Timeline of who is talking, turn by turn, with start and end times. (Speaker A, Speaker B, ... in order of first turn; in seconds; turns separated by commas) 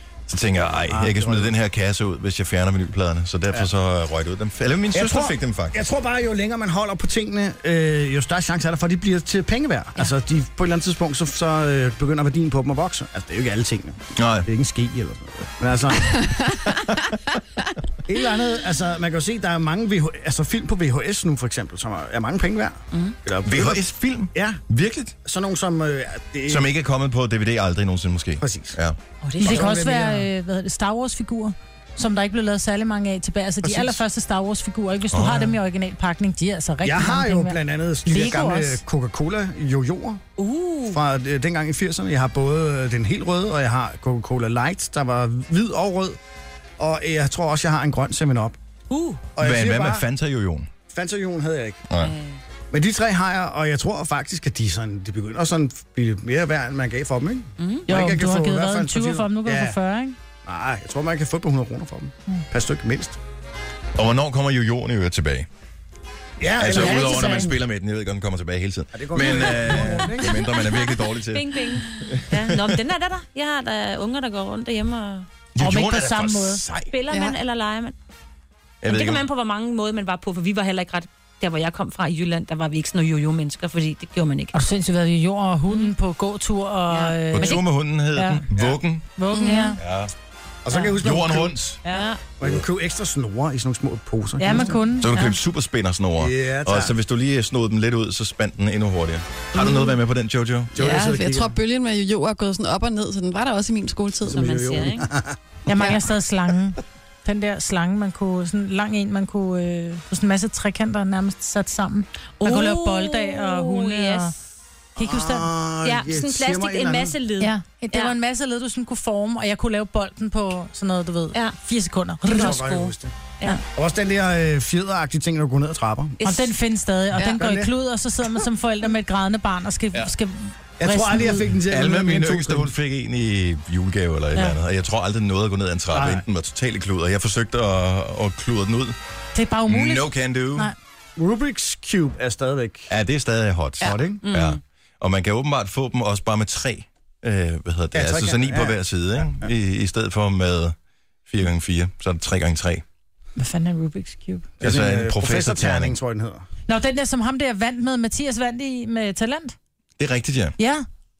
Speaker A: 0.3-5.8, Speaker B: 0.9-1.5, Speaker B: 4.9-16.3, Speaker A: 14.2-14.5, Speaker B: 18.1-23.8, Speaker A: 23.4-25.1, Speaker B: 24.3-24.6, Speaker B: 25.2-26.6, Speaker A: 26.5-28.9, Speaker B: 28.4-28.8, Speaker C: 29.2-29.8, Speaker B: 29.4-30.3, Speaker D: 29.4-38.8, Speaker B: 33.6-34.0, Speaker A: 35.1-35.5, Speaker B: 36.8-40.2, Speaker C: 40.4-41.0, Speaker B: 40.9-46.2, Speaker B: 46.8-48.6, Speaker C: 48.9-49.2, Speaker B: 49.4-50.0, Speaker A: 49.4-50.7, Speaker B: 50.9-51.8, Speaker A: 51.9-52.1, Speaker C: 52.0-52.4, Speaker B: 52.7-59.8, Speaker C: 57.6-57.9, Speaker D: 57.9-60.1, Speaker B: 60.4-63.2, Speaker A: 64.0-65.5, Speaker B: 66.4-67.5, Speaker A: 66.6-72.6, Speaker D: 66.7-67.5, Speaker B: 68.9-70.4, Speaker C: 71.2-75.3, Speaker A: 75.5-76.9, Speaker D: 75.6-76.6, Speaker C: 76.9-77.9, Speaker E: 77.1-77.4, Speaker A: 78.8-79.2, Speaker C: 78.9-84.5, Speaker D: 84.5-87.6, Speaker C: 86.9-87.6, Speaker A: 87.3-89.0, Speaker D: 88.1-88.4, Speaker D: 89.1-89.8, Speaker E: 89.3-89.7, Speaker A: 89.8-90.1, Speaker B: 90.6-91.6, Speaker A: 91.0-91.8, Speaker C: 91.8-92.2, Speaker B: 92.4-94.8, Speaker D: 94.4-95.3, Speaker A: 95.0-100.7, Speaker B: 96.2-96.9, Speaker B: 100.7-101.5, Speaker C: 100.8-101.2, Speaker E: 100.9-104.4, Speaker B: 104.2-105.3, Speaker C: 104.3-105.1, Speaker D: 105.7-114.3, Speaker C: 112.4-114.3, Speaker D: 115.0-115.5, Speaker B: 115.0-117.2, Speaker C: 115.8-118.1, Speaker D: 117.4-122.9, Speaker B: 122.3-123.1, Speaker C: 122.3-122.7, Speaker B: 123.7-126.2, Speaker C: 126.2-126.5, Speaker D: 126.2-131.5, Speaker B: 127.2-127.7, Speaker B: 130.8-132.7, Speaker A: 131.7-138.9, Speaker B: 135.9-136.2, Speaker D: 139.3-140.7, Speaker A: 139.7-140.7, Speaker B: 141.2-142.9, Speaker A: 142.9-150.7, Speaker B: 143.8-144.2, Speaker C: 144.2-144.6, Speaker B: 147.9-148.8, Speaker A: 151.2-152.8, Speaker D: 153.4-154.5, Speaker A: 154.6-155.9, Speaker B: 154.6-156.4, Speaker D: 156.7-159.5, Speaker A: 160.0-160.6, Speaker D: 160.6-160.8